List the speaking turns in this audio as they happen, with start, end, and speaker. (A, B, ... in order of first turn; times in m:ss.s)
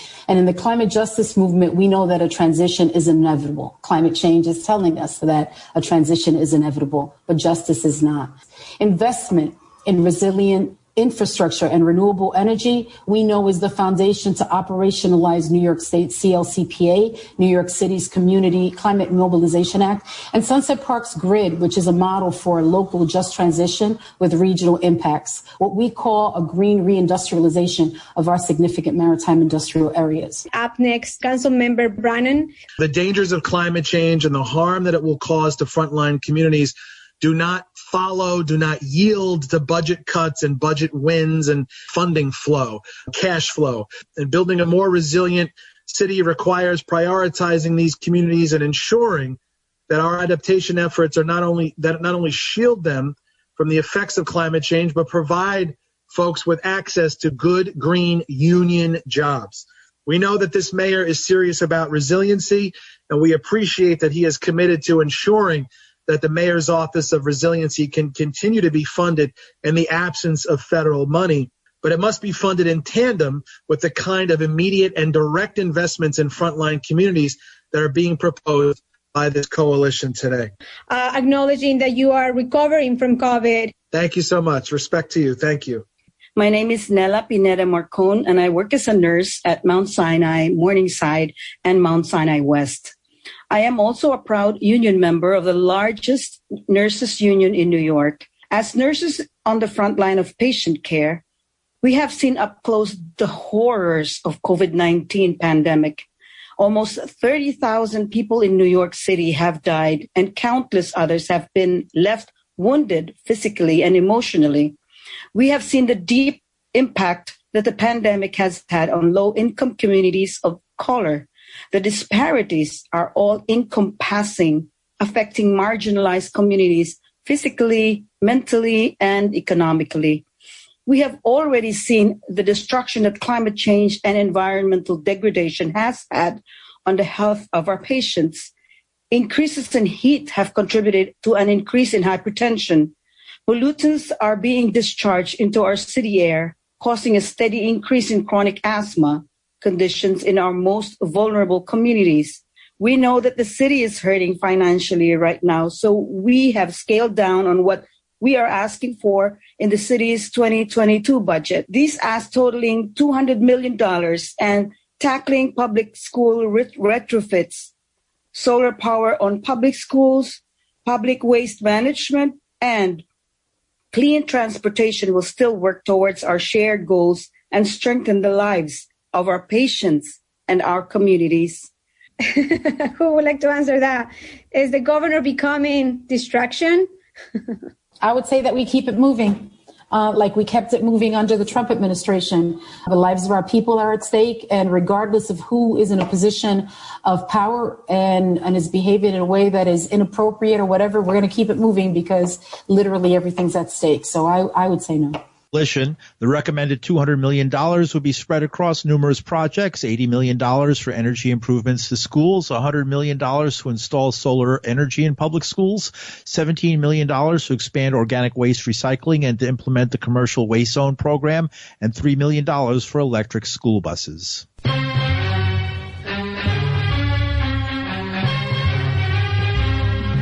0:00.3-0:30.5 A
0:30.5-0:32.5 B
0:32.8-0:49.4 C
0:49.9-1:20.5 C
1:20.9-1:23.7 B
1:23.9-1:25.8 C
1:26.4-1:32.9 D
1:33.5-1:41.2 D
1:41.8-1:46.0 D
1:46.6-1:54.7 D
1:55.3-2:10.2 D
2:10.8-2:18.5 D
2:19.1-2:22.9 D
2:23.5-2:47.7 D
2:48.3-2:53.0 D
2:53.9-3:01.7 D
3:02.2-3:07.4 B
3:08.0-3:25.2 A
3:25.5-3:44.4 E